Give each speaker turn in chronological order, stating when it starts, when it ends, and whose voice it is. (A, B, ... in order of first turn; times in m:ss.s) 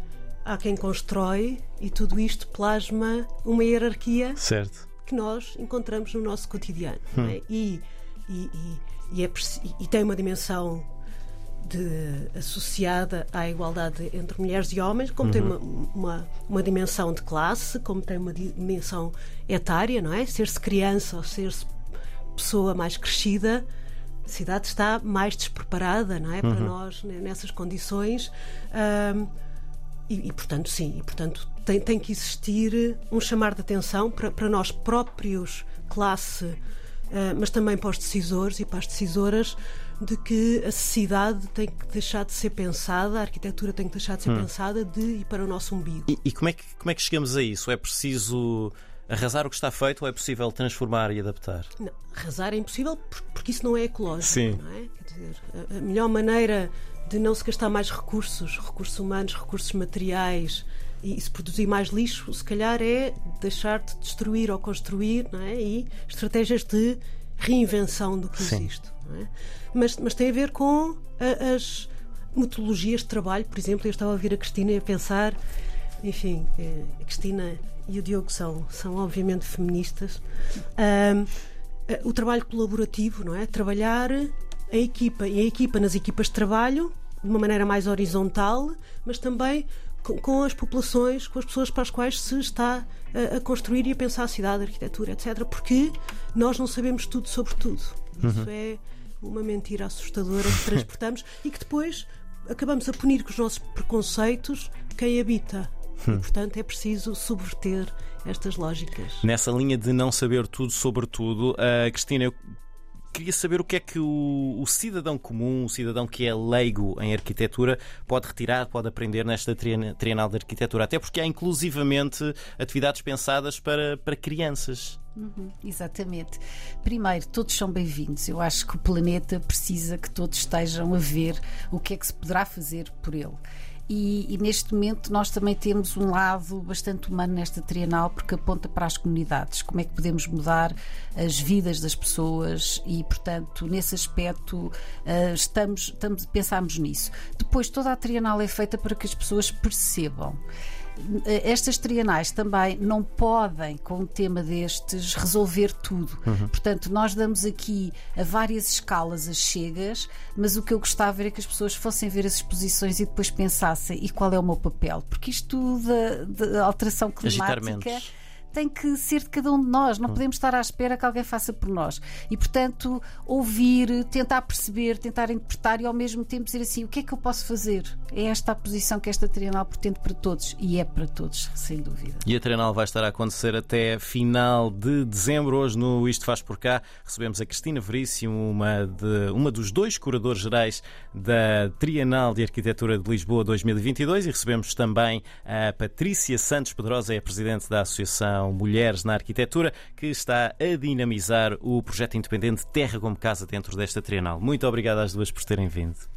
0:00.4-0:04.4 A
0:04.4-0:04.9 B
0:05.0-0:10.9 A
0:11.6-0:21.7 A
0:15.2-0:15.5 B
0:22.4-0:23.6 A
0:24.3-0:29.3 A
0:26.4-0:26.7 B
0:30.1-0:36.6 A
0:37.1-0:46.1 A
0:46.1-0:51.7 B
0:51.8-1:15.4 A
0:54.2-0:54.6 B
1:08.4-1:08.6 B
1:16.0-1:20.2 A
1:20.8-1:21.3 A
1:21.9-1:49.3 A
1:38.2-1:38.5 B
1:49.2-1:52.4 B
1:53.1-2:05.0 B
2:05.2-2:30.4 C
2:31.0-2:48.0 C
2:36.3-2:36.5 B
2:47.2-2:48.1 B
2:48.5-3:02.2 C
3:02.2-3:26.0 B